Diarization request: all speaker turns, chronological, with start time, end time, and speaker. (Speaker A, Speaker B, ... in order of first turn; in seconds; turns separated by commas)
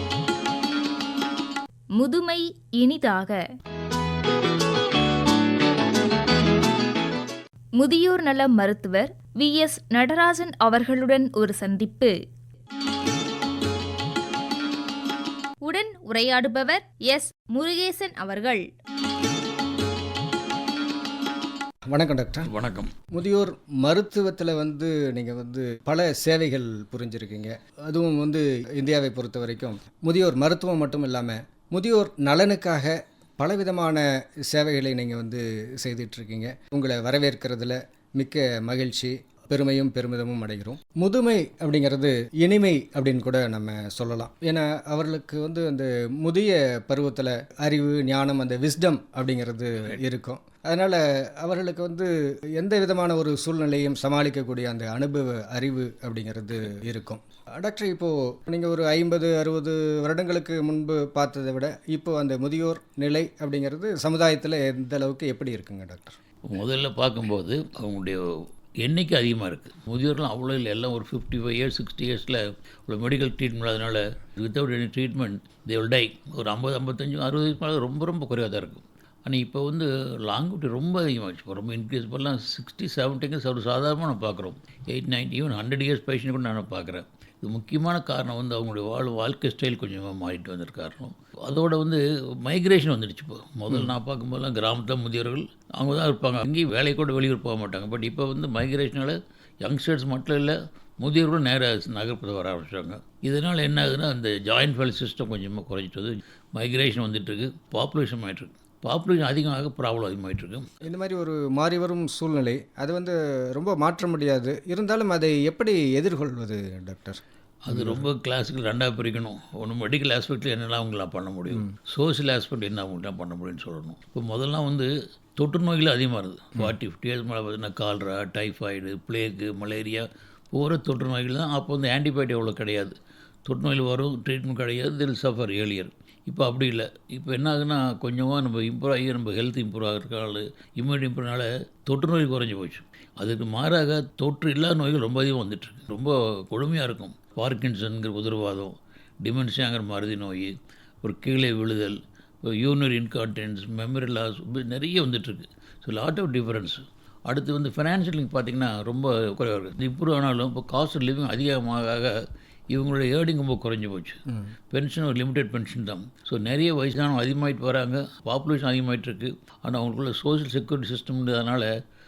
Speaker A: 2.0-3.4, Speaker A: 7.8-12.1, Speaker A: 15.6-18.6, Speaker B: 21.9-22.5, Speaker C: 22.4-22.9, Speaker B: 23.1-66.2, Speaker C: 66.5-110.7, Speaker B: 110.8-118.0, Speaker C: 117.7-162.2, Speaker C: 162.7-171.7